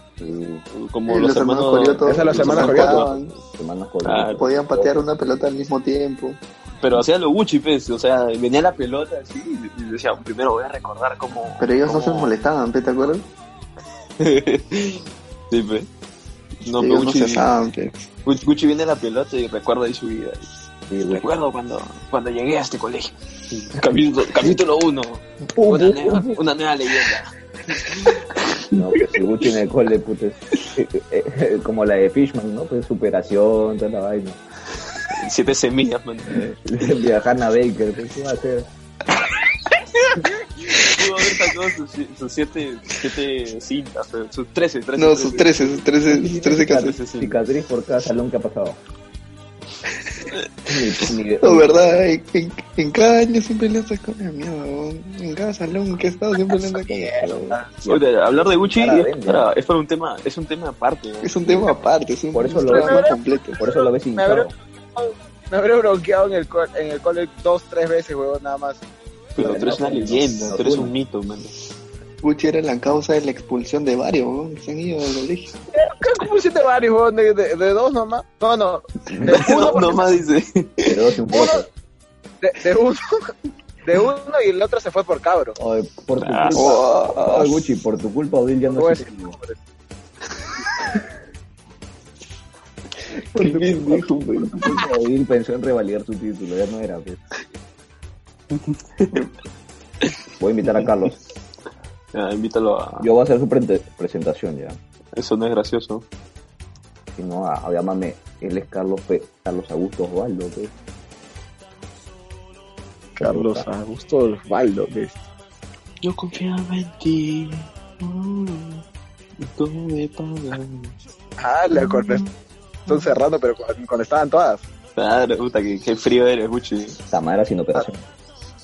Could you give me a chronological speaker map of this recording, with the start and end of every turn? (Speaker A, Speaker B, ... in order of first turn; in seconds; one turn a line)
Speaker A: 0.2-0.6
Speaker B: 0.7-3.1
Speaker C: 1.1-3.3
Speaker D: 2.1-3.1
Speaker A: 2.3-4.9
Speaker B: 4.0-4.6
Speaker C: 4.4-6.4
Speaker B: 6.8-12.3
Speaker C: 11.6-13.3
Speaker B: 14.2-15.9
Speaker B: 16.6-17.5
Speaker C: 16.7-18.1
Speaker B: 18.2-20.5
Speaker A: 20.9-21.2
Speaker B: 21.1-29.2
Speaker A: 25.5-26.4
Speaker A: 28.7-34.4
Speaker B: 35.1-36.5
Speaker A: 36.3-38.7
Speaker B: 40.7-47.4
Speaker C: 45.0-47.0
Speaker A: 46.1-48.8
Speaker A: 50.7-51.8
Speaker C: 51.4-57.5
Speaker A: 56.9-58.1
Speaker B: 57.7-61.7
Speaker A: 58.6-59.5
Speaker C: 61.2-63.6
Speaker A: 62.3-64.5
Speaker D: 62.7-63.2
Speaker D: 63.8-68.8
Speaker B: 69.3-71.5
Speaker A: 69.4-70.9
Speaker D: 69.4-69.8
Speaker C: 72.2-75.5
Speaker D: 75.7-80.2
Speaker B: 79.2-81.0
Speaker A: 79.2-79.6
Speaker A: 80.8-81.7
Speaker D: 81.3-81.6
Speaker D: 82.4-83.3
Speaker D: 83.8-85.6
Speaker A: 85.6-89.4
Speaker B: 86.2-86.7
Speaker C: 86.5-87.6
Speaker D: 88.8-89.6
Speaker A: 93.3-97.2
Speaker B: 93.8-94.4
Speaker A: 100.4-101.2
Speaker B: 102.1-103.1
Speaker A: 103.0-104.8
Speaker B: 105.2-106.1
Speaker A: 107.2-110.7
Speaker D: 113.2-115.2
Speaker A: 113.2-113.7
Speaker B: 116.0-118.8
Speaker B: 119.4-121.0
Speaker D: 121.4-122.3
Speaker D: 122.9-124.6
Speaker B: 125.0-127.0
Speaker A: 127.1-128.1